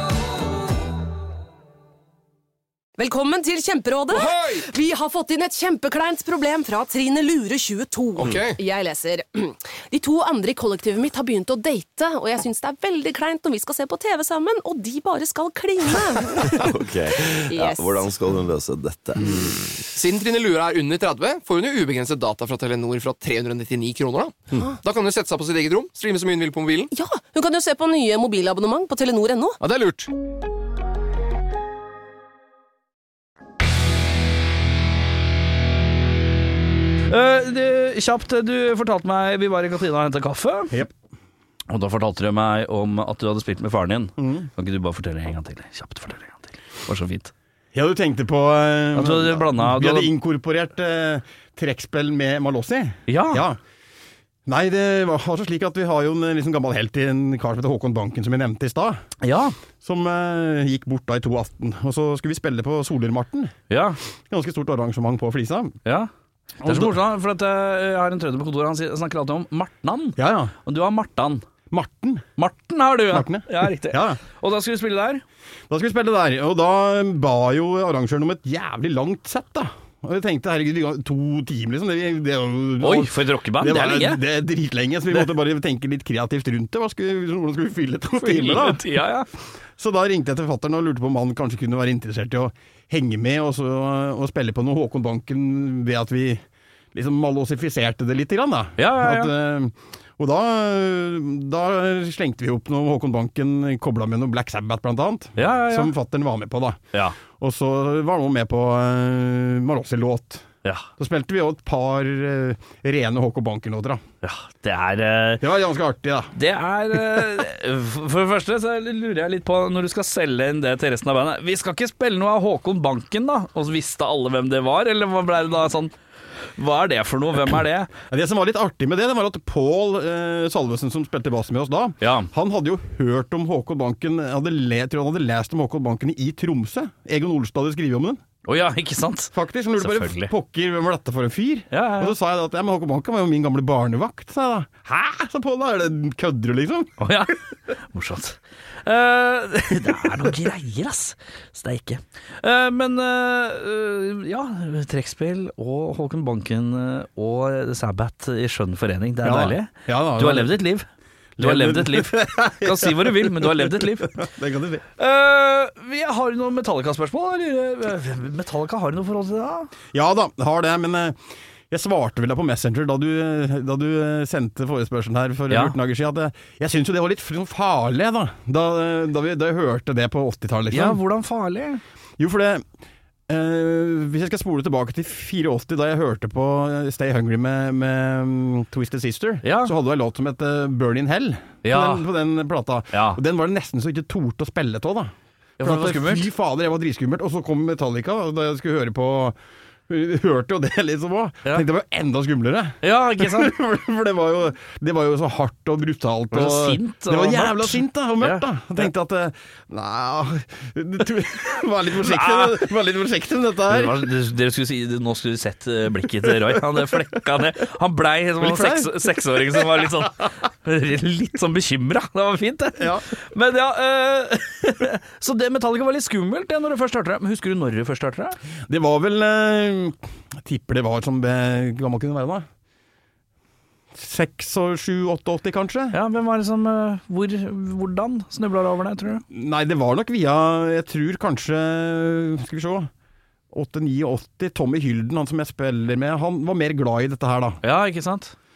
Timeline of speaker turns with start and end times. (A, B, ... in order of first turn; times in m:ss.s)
0:03.0-0:16.6 A
0:04.1-0:04.7 B
0:08.2-0:08.6 B
0:16.4-0:19.9 C
0:17.5-0:17.9 A
0:20.0-0:26.9 B
0:26.9-0:29.6 A
0:29.6-0:30.1 B
0:37.1-0:40.8 D
0:41.7-0:47.3 D
0:44.2-0:44.5 E
0:47.7-0:53.6 E
0:48.9-0:50.1 D
0:53.1-0:53.4 D
0:54.5-0:59.0 E
0:59.2-0:59.6 D
0:59.8-1:03.5 E
1:03.7-1:04.0 D
1:04.3-1:05.8 E
1:05.8-1:06.1 D
1:06.6-1:07.0 E
1:06.6-1:11.5 D
1:10.2-1:10.5 E
1:11.7-1:12.3 E
1:12.4-1:15.2 D
1:13.1-1:14.2 E
1:15.7-1:28.8 E
1:22.8-1:24.2 D
1:28.2-1:29.3 D
1:29.8-1:50.5 E
1:38.8-1:39.3 D
1:45.4-1:45.9 D
1:51.0-1:54.0 E
1:54.2-1:55.4 D
1:55.4-1:56.3 E
1:56.4-2:06.0 D
2:06.5-2:07.9 D
2:08.1-2:18.2 E
2:12.0-2:12.3 D
2:18.4-2:20.3 D
2:19.3-2:27.0 E
2:21.7-2:22.2 D
2:27.0-2:40.9 D
2:39.2-2:40.6 E
2:41.4-2:44.8 E
2:41.4-2:44.2 D
2:45.0-2:49.7 D
2:49.9-2:51.2 E
2:51.7-3:01.0 E
2:55.5-2:55.8 D
3:00.7-3:01.8 D
3:02.2-3:02.6 E
3:03.3-3:19.4 E
3:09.4-3:09.7 D
3:11.6-3:12.1 D
3:12.9-3:13.2 D
3:15.6-3:16.3 D
3:19.9-3:34.0 E
3:22.8-3:23.6 D
3:26.3-3:28.9 D
3:31.9-3:32.7 D
3:33.7-3:48.4 D
3:36.3-3:36.6 E
3:38.4-3:40.0 E
3:42.8-3:43.1 E
3:48.7-3:52.5 E
3:53.9-3:56.0 E
3:55.9-3:59.2 D
3:59.3-4:02.9 E
4:03.5-4:07.6 E
4:07.6-4:08.4 D